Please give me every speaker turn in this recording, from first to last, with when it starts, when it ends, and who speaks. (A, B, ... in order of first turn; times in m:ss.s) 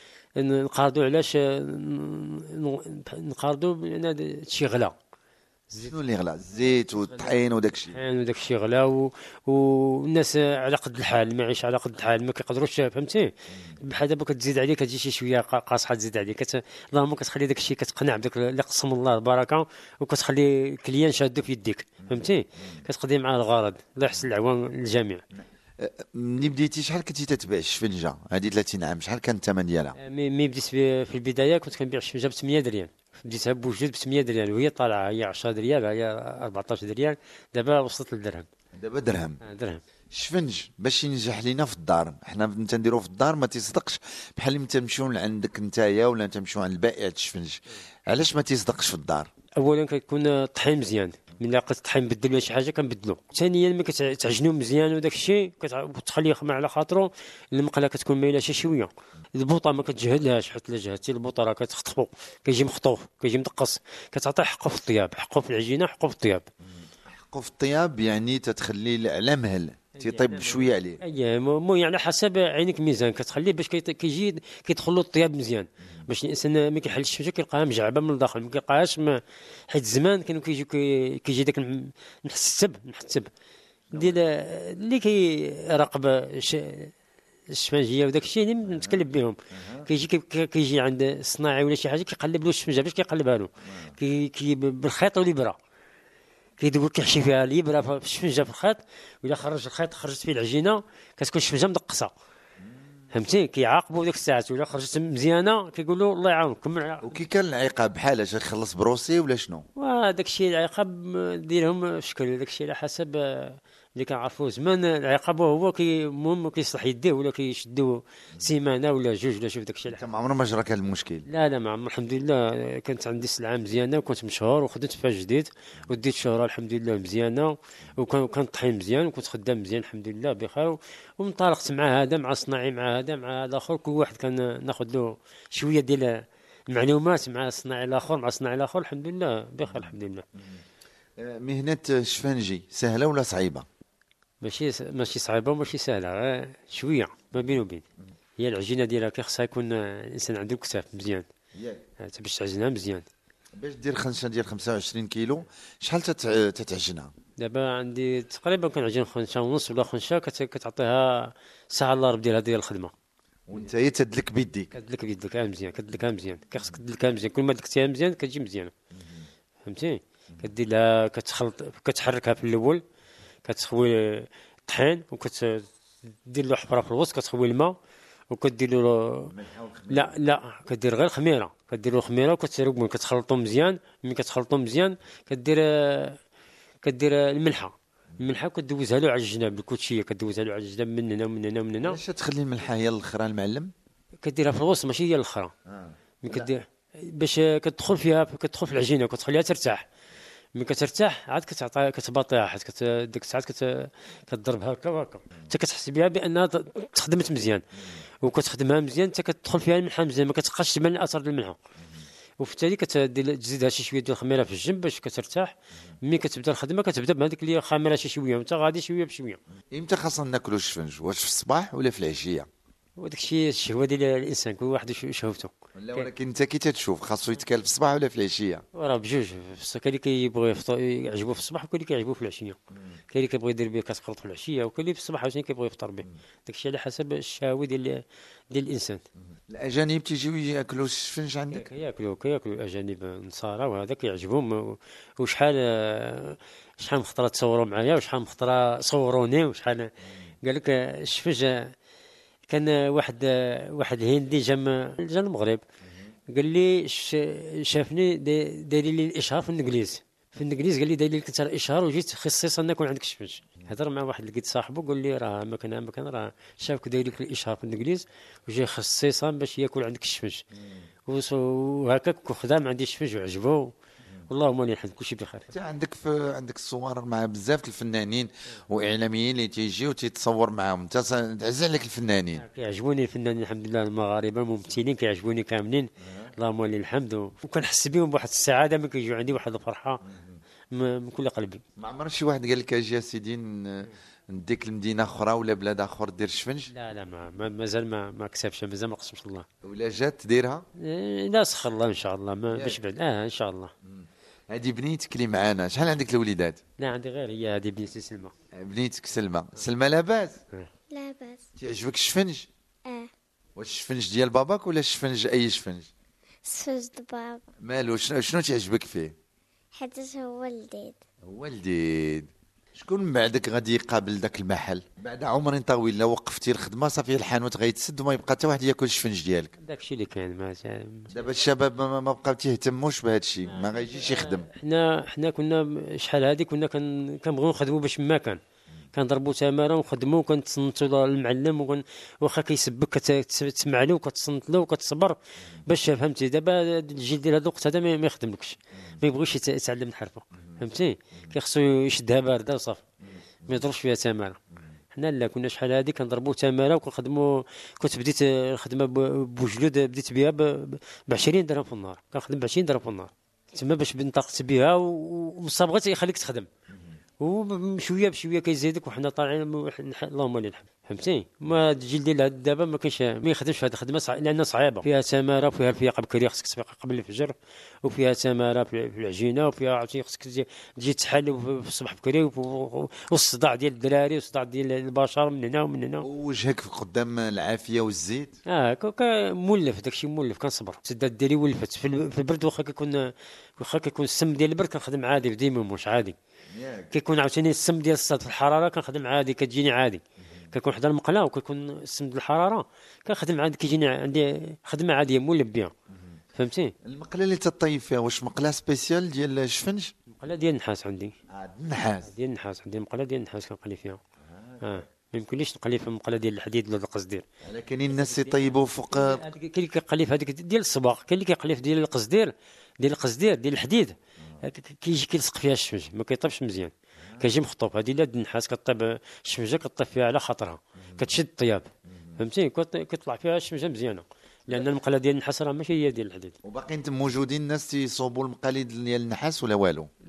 0:00.4-0:05.0 A
0:05.8-0:08.0 B
0:06.6-0:07.4 A
0:07.9-0:25.2 A
0:22.1-0:22.8 B
0:25.4-0:30.0 B
0:30.0-0:38.5 A
0:38.8-0:39.4 B
0:39.4-0:39.8 A
0:40.1-0:49.3 B
0:49.6-1:06.5 A
1:06.8-1:11.0 B
1:10.0-1:23.3 A
1:23.9-1:24.3 B
1:23.9-1:26.9 A
1:27.5-1:35.6 A
1:28.6-1:29.9 B
1:33.6-1:34.0 B
1:36.6-1:42.1 A
1:43.1-1:47.2 A
1:47.0-1:49.7 B
1:49.8-2:00.0 A
1:59.9-2:01.3 B
2:01.3-2:20.3 A
2:19.7-2:20.6 B
2:21.2-2:23.7 B
2:24.4-2:27.8 A
2:28.4-2:31.2 A
2:31.6-2:31.8 B
2:32.0-2:33.1 A
2:33.6-2:37.1 B
2:37.4-2:42.9 A
2:43.5-2:44.7 B
2:44.7-2:48.7 A
2:48.9-2:49.3 B
2:49.6-2:52.8 A
2:53.4-2:55.7 A
2:56.2-2:57.8 A
2:58.3-2:59.3 A
2:59.3-3:00.2 B
2:59.9-3:06.2 A
3:06.8-3:12.0 A
3:11.8-3:13.7 B
3:14.2-3:15.5 A
3:15.7-3:16.5 B
3:16.2-3:19.8 A
3:20.6-3:27.7 A
3:28.2-3:31.6 A
3:31.8-3:32.1 B
3:32.4-3:39.4 A
3:39.7-3:42.5 B
3:43.0-3:46.1 A
3:45.8-3:48.6 B
3:48.7-3:52.6 A
3:53.1-3:59.0 A
3:59.5-4:01.7 B
4:01.5-4:11.7 A
4:12.5-4:15.6 A
4:16.3-4:30.4 A
4:30.6-4:30.8 B
4:31.1-4:33.7 A
4:34.3-4:35.5 A
4:35.5-4:42.4 B
4:42.4-4:50.0 A
4:50.1-4:50.4 B
4:50.7-4:51.6 A
4:51.8-4:56.7 B
4:56.7-4:59.5 A
4:59.6-5:00.6 B
5:00.8-5:03.7 A
5:02.5-5:02.8 B
5:03.9-5:06.6 B
5:06.8-5:08.3 A
5:08.5-5:10.4 B
5:10.9-5:11.4 C
5:11.6-5:12.5 B
5:13.6-5:15.9 B
5:16.4-5:17.4 C
5:17.6-5:19.1 B
5:19.7-5:21.0 C
5:21.3-5:29.5 B
5:29.6-5:31.2 A
5:31.1-5:34.5 B
5:33.5-5:38.4 A
5:38.9-5:52.8 A
5:53.1-5:53.7 B
5:53.5-5:54.4 A
5:54.9-6:06.5 A
6:07.2-6:26.1 A
6:26.0-6:28.4 B
6:28.5-6:36.2 A
6:36.5-6:36.9 B
6:36.9-6:45.7 A
6:46.4-6:46.8 A
6:46.8-6:49.9 B
6:50.1-6:51.2 A
6:51.3-6:52.1 B
6:52.0-6:54.0 A
6:54.3-6:54.8 B
6:54.6-6:57.3 A
6:57.4-6:59.2 B
6:57.9-7:16.4 A
7:16.4-7:19.9 B